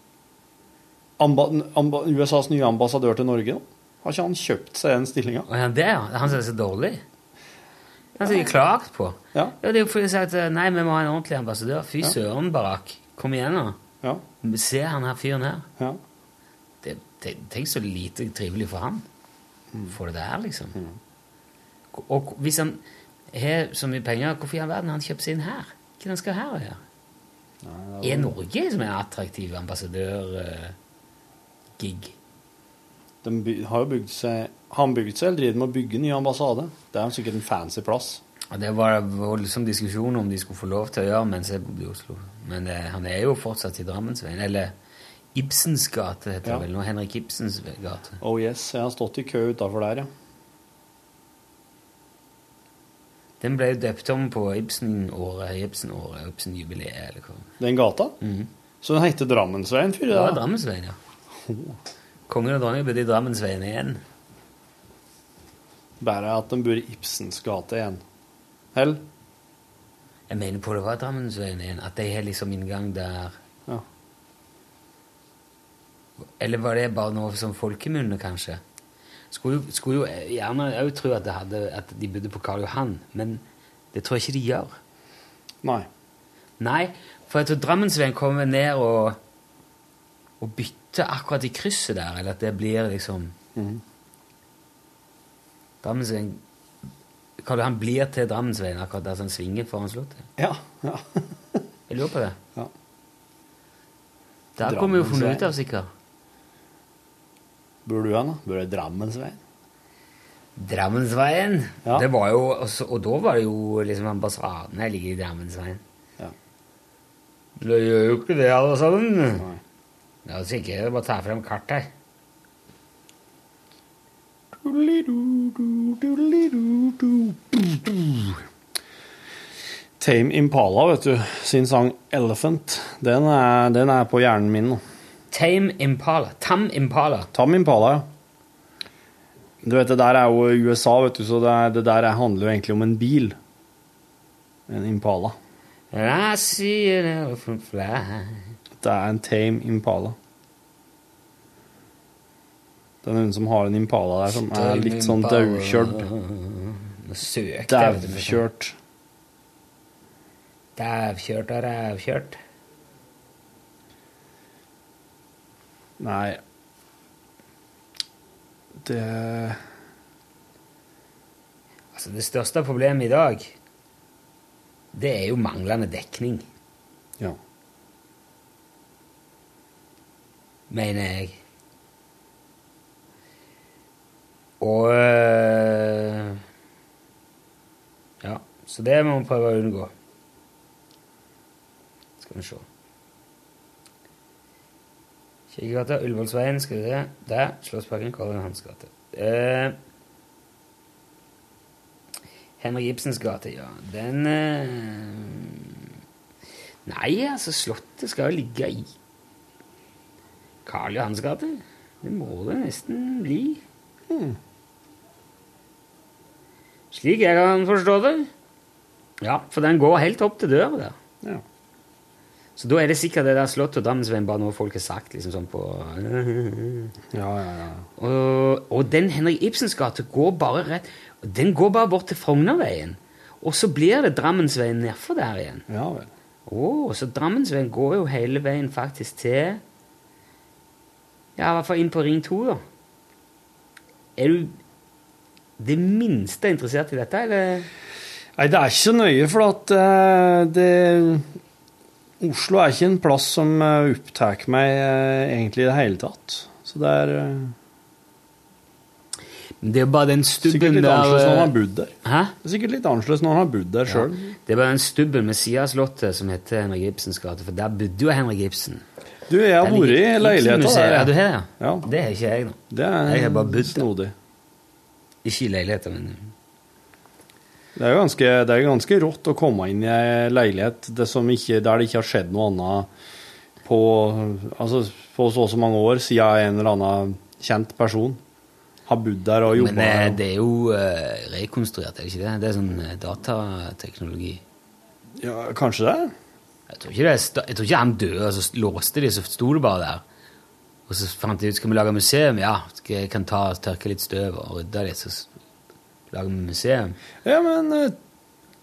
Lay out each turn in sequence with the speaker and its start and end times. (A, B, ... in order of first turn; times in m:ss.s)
0:01.2-0:05.5 A
0:05.5-0:07.0 B
0:08.2-0:13.8 B
0:14.4-0:15.7 B
0:16.8-0:19.0 B
0:19.9-0:20.8 B
0:21.9-0:22.8 B
0:23.3-0:26.8 B
0:27.6-0:28.3 A
0:28.0-0:30.8 B
0:31.8-0:32.1 B
0:33.2-0:38.2 A
0:38.5-0:44.7 B
0:45.4-0:48.2 B
0:48.2-0:50.1 A
0:53.4-0:57.5 B
0:57.6-0:58.2 A
0:58.2-0:58.5 B
0:58.8-1:00.4 A
1:00.1-1:01.0 B
1:01.5-1:01.8 A
1:02.3-1:04.0 B
1:06.0-1:08.0 A
1:08.7-1:09.0 A
1:10.3-1:13.4 B
1:16.4-1:18.6 B
1:19.3-1:23.4 B
1:23.9-1:24.8 B
1:26.6-1:29.2 B
1:30.4-1:33.3 B
1:33.6-1:33.8 A
1:35.8-1:36.4 B
1:37.4-1:40.3 B
1:40.4-1:41.6 A
1:41.9-1:42.4 B
1:44.6-1:45.9 B
1:44.6-1:45.5 A
1:47.8-1:49.4 A
1:50.6-1:55.8 B
1:57.6-1:59.4 B
2:00.2-2:01.9 B
2:04.6-2:08.4 A
2:10.0-2:14.8 A
2:15.3-2:17.3 B
2:17.3-2:18.1 A
2:19.6-2:23.4 A
2:24.7-2:25.4 A
2:25.9-2:28.5 B
2:28.8-2:30.2 A
2:33.0-2:36.1 A
2:34.3-2:38.4 B
2:37.7-2:38.8 A
2:40.8-2:42.4 B
2:46.0-2:46.4 A
2:48.8-2:49.6 A
2:51.9-2:53.6 B
2:54.9-2:56.4 B
3:00.7-3:01.4 B
3:04.6-3:06.4 B
3:08.2-3:09.9 B
3:12.2-3:12.6 B
3:15.5-3:19.8 B
3:22.6-3:25.9 B
3:26.9-3:28.9 B
3:30.7-3:33.6 B
3:34.1-3:34.4 A
3:36.9-3:38.3 B
3:39.2-3:41.0 B
3:42.6-3:46.9 B
3:47.1-3:47.9 A
3:48.0-3:55.7 B
3:55.7-3:56.1 A
3:56.5-3:59.6 B
4:01.4-4:02.6 B
4:04.2-4:04.6 B
4:05.6-4:07.7 B
4:08.4-4:11.3 A
4:12.2-4:17.6 A
4:19.6-4:21.5 B
4:20.4-4:24.3 A
4:22.0-4:22.4 B
4:23.9-4:28.8 B
4:29.3-4:31.9 A
4:29.6-4:33.9 B
4:32.7-4:34.1 A
4:35.2-4:36.3 B
4:37.8-4:42.9 A
4:43.6-4:48.2 A
4:48.9-4:50.2 A
4:49.5-4:54.4 B
4:55.2-4:56.1 A
4:56.7-5:00.0 B
5:00.9-5:05.3 B
5:06.1-5:07.0 B
5:07.2-5:08.0 A